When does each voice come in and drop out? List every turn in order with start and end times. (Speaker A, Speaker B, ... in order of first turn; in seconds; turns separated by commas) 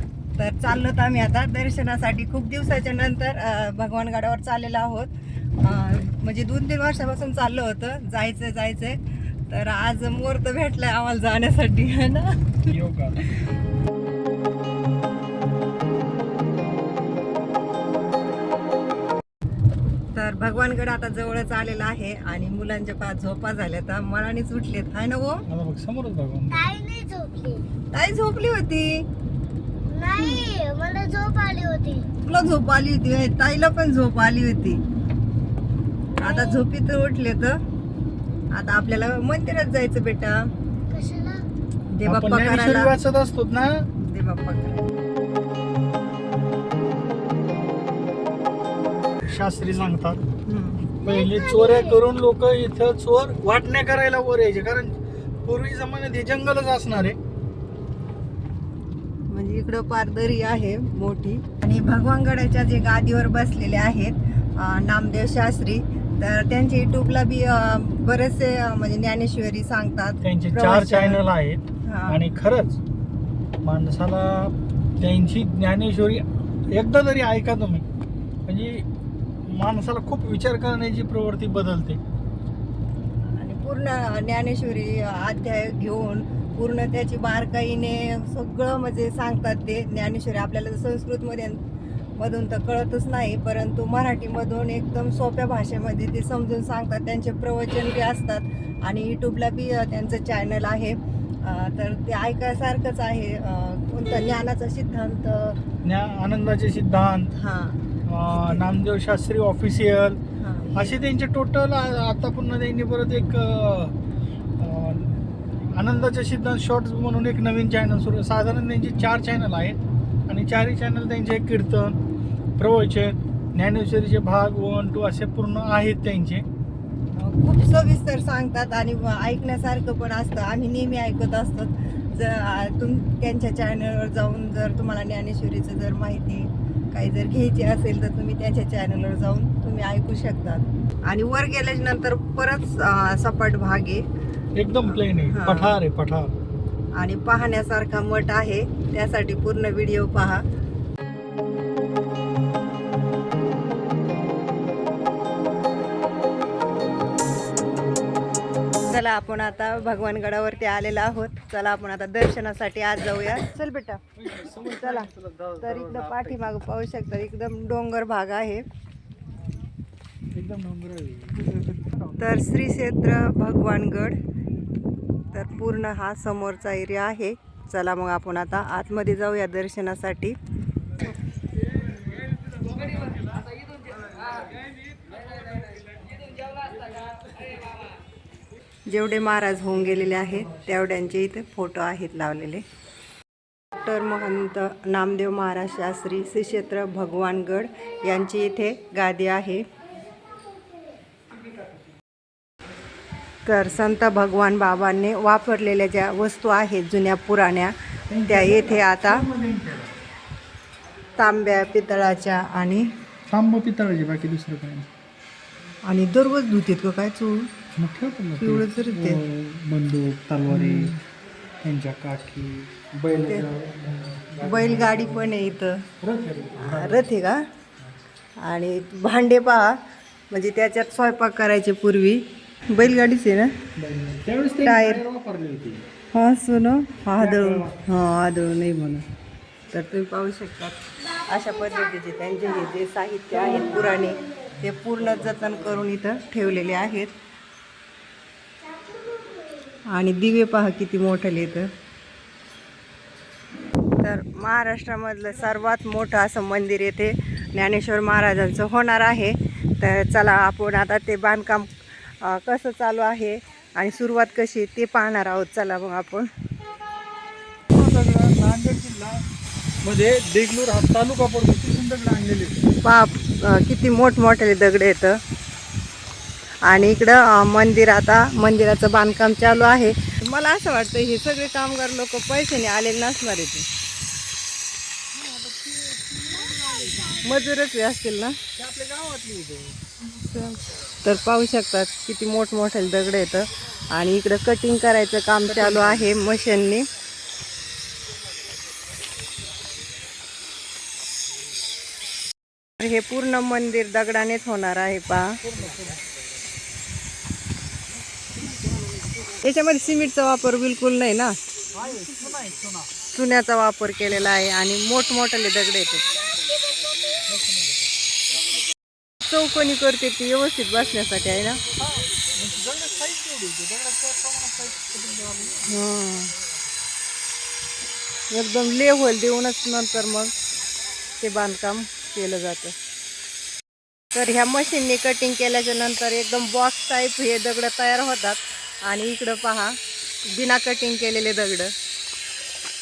Speaker A: 0.4-12.7, Speaker B: 12.7-13.2, Speaker A: 20.1-25.4, Speaker B: 25.5-26.6, Speaker C: 26.5-27.6, Speaker A: 27.9-29.0, Speaker C: 29.9-32.1, Speaker A: 32.2-34.8, Speaker A: 36.2-37.6, Speaker C: 36.2-36.6, Speaker A: 38.5-40.5, Speaker C: 40.9-41.5, Speaker A: 41.9-42.9, Speaker B: 42.0-43.9, Speaker A: 44.0-44.9, Speaker B: 49.3-50.2, Speaker A: 50.5-50.9, Speaker C: 51.0-52.0, Speaker B: 51.0-57.2, Speaker A: 59.3-71.2, Speaker B: 70.2-72.8, Speaker A: 71.8-72.2, Speaker B: 73.6-77.8, Speaker B: 78.5-78.8, Speaker B: 79.5-82.0, Speaker A: 83.4-91.6, Speaker A: 92.2-105.6, Speaker B: 105.8-107.3, Speaker A: 107.4-108.7, Speaker B: 108.1-110.2, Speaker A: 110.4-111.0, Speaker B: 110.7-113.9, Speaker B: 114.6-122.0, Speaker B: 122.6-126.4, Speaker A: 127.1-144.0, Speaker B: 144.6-146.3, Speaker A: 144.8-145.7, Speaker A: 147.0-150.4, Speaker A: 158.9-164.0, Speaker B: 164.2-166.4, Speaker A: 164.6-165.1, Speaker A: 165.6-168.6, Speaker B: 170.3-172.5, Speaker A: 171.3-174.2, Speaker A: 175.3-180.4, Speaker A: 188.9-192.6, Speaker A: 193.8-199.6, Speaker A: 203.4-207.7, Speaker B: 208.1-209.9, Speaker A: 208.3-209.2, Speaker A: 211.2-212.9, Speaker B: 213.3-214.9, Speaker A: 215.8-217.5, Speaker B: 217.7-221.0, Speaker A: 218.4-219.2, Speaker A: 220.5-220.9, Speaker B: 221.6-225.3, Speaker A: 224.4-225.8, Speaker B: 226.0-227.1, Speaker A: 226.6-227.4, Speaker A: 228.4-229.8, Speaker A: 230.3-233.5, Speaker B: 233.8-235.8, Speaker A: 234.6-235.0, Speaker A: 236.1-239.0, Speaker B: 237.2-237.8, Speaker A: 239.7-247.1, Speaker C: 248.6-249.8, Speaker A: 249.8-251.7, Speaker A: 254.0-266.3, Speaker B: 267.7-269.2, Speaker B: 269.8-272.6, Speaker A: 272.8-275.2, Speaker A: 276.6-283.6, Speaker B: 285.1-287.4, Speaker A: 287.2-288.4, Speaker B: 288.6-289.8, Speaker A: 290.0-296.9, Speaker B: 295.4-296.1, Speaker A: 302.8-305.4, Speaker B: 305.4-306.1, Speaker A: 309.4-311.4, Speaker B: 311.7-312.9, Speaker A: 313.1-316.2, Speaker C: 316.7-317.1, Speaker B: 317.3-317.9, Speaker A: 319.2-321.6, Speaker B: 321.8-325.7, Speaker A: 325.7-326.3, Speaker A: 328.3-330.3, Speaker A: 331.2-332.7, Speaker A: 334.1-341.7